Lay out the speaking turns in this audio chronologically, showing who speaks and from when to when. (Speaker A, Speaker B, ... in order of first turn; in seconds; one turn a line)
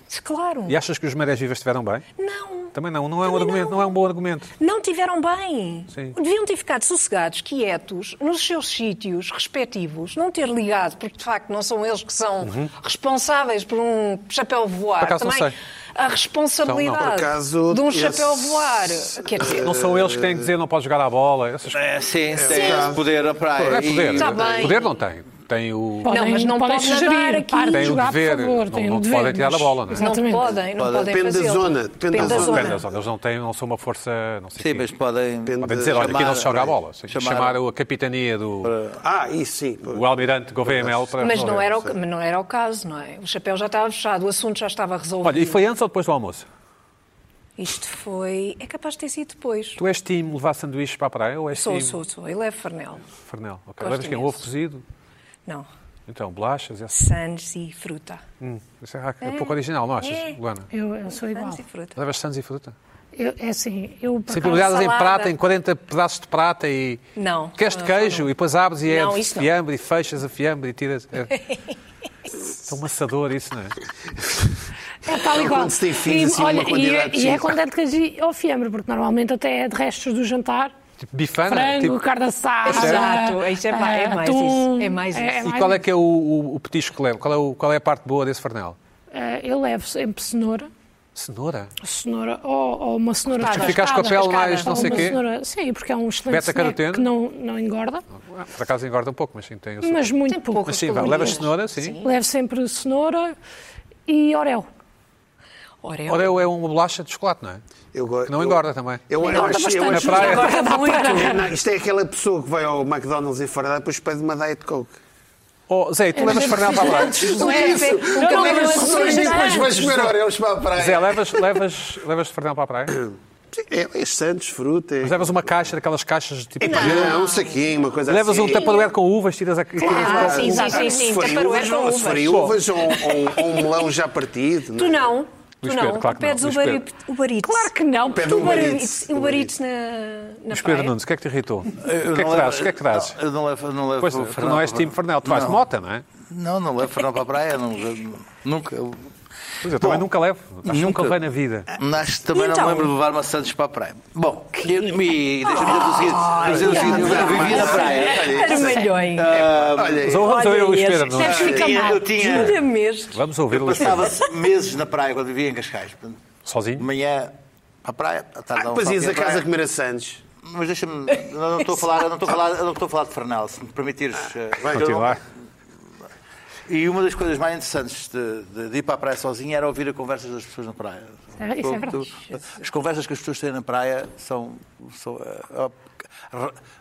Speaker A: 0.1-0.8
Speaker B: 0.7-2.0
Speaker A: 2.2-4.0
Speaker B: 2.7-4.5
Speaker A: 4.6-19.7
Speaker B: 12.4-12.7
Speaker B: 15.0-15.6
Speaker B: 16.6-17.0
Speaker C: 16.9-20.5
Speaker B: 19.4-21.8
Speaker D: 21.7-24.8
Speaker C: 22.4-23.0
Speaker A: 22.5-22.9
Speaker B: 23.6-26.1
Speaker A: 24.2-24.8
Speaker E: 26.1-30.5
Speaker A: 26.1-28.0
Speaker B: 27.7-30.0
Speaker A: 29.9-32.8
Speaker D: 30.8-31.1
Speaker C: 31.0-32.8
Speaker B: 32.2-34.9
Speaker D: 34.6-37.6
Speaker C: 35.5-36.7
Speaker B: 35.6-38.7
Speaker D: 38.6-39.0
Speaker C: 39.0-40.1
Speaker B: 39.9-41.7
Speaker C: 40.6-41.6
Speaker A: 41.2-45.6
Speaker B: 45.2-46.5
Speaker A: 47.6-49.8
Speaker B: 49.8-52.0
Speaker A: 51.6-53.0
Speaker B: 53.2-54.8
Speaker A: 53.8-54.5
Speaker B: 56.1-57.0
Speaker A: 56.9-58.2
Speaker B: 58.4-60.7
Speaker A: 59.2-60.4
Speaker E: 60.7-61.6
Speaker A: 61.3-62.0
Speaker B: 62.0-62.7
Speaker E: 63.1-64.7
Speaker B: 64.3-67.0
Speaker A: 64.4-65.3
Speaker A: 67.2-68.3
Speaker B: 67.6-71.4
Speaker A: 68.9-69.5
Speaker B: 72.7-73.8
Speaker E: 75.1-80.7
Speaker C: 75.1-77.6
Speaker B: 81.0-82.0
Speaker E: 81.5-85.8
Speaker B: 82.7-83.0
Speaker A: 82.7-85.5
Speaker B: 85.4-88.8
Speaker E: 89.1-90.7
Speaker B: 91.2-91.7
Speaker E: 91.8-98.0
Speaker A: 93.4-95.1
Speaker B: 93.5-95.2
Speaker B: 96.3-97.1
Speaker B: 98.2-102.0
Speaker E: 99.8-101.5
Speaker A: 100.3-102.1
Speaker E: 102.0-103.4
Speaker E: 104.1-104.7
Speaker A: 105.8-106.4
Speaker B: 106.1-107.6
Speaker C: 107.9-115.0
Speaker B: 108.3-109.1
Speaker E: 109.2-111.5
Speaker A: 109.2-109.6
Speaker B: 109.8-110.6
Speaker A: 110.2-111.1
Speaker B: 115.7-117.3
Speaker E: 116.2-120.1
Speaker A: 116.7-119.8
Speaker C: 116.9-121.6
Speaker B: 120.8-123.0
Speaker C: 123.0-125.6
Speaker B: 125.0-127.2
Speaker C: 126.6-128.8
Speaker A: 126.6-127.6
Speaker B: 128.1-130.7
Speaker A: 128.5-128.8
Speaker A: 129.8-133.6
Speaker C: 129.8-135.1
Speaker E: 129.9-131.0
Speaker B: 132.3-132.5
Speaker A: 134.8-141.0
Speaker B: 135.6-136.8
Speaker E: 137.4-138.5
Speaker C: 138.1-139.5
Speaker B: 140.5-143.2
Speaker D: 141.8-145.6
Speaker B: 144.0-146.1
Speaker D: 146.2-149.1
Speaker B: 149.6-151.7
Speaker D: 149.8-150.1
Speaker D: 150.7-160.1
Speaker A: 152.3-152.9
Speaker A: 155.5-159.3
Speaker C: 156.3-160.3
Speaker B: 160.1-161.6
Speaker A: 160.2-163.2
Speaker E: 161.2-162.0
Speaker D: 161.2-162.6
Speaker B: 163.1-164.2
Speaker D: 163.5-166.2
Speaker B: 166.5-166.9
Speaker D: 166.8-169.4
Speaker C: 168.5-170.2
Speaker D: 170.4-175.2
Speaker B: 174.7-175.2
Speaker D: 176.7-186.6
Speaker E: 181.4-182.1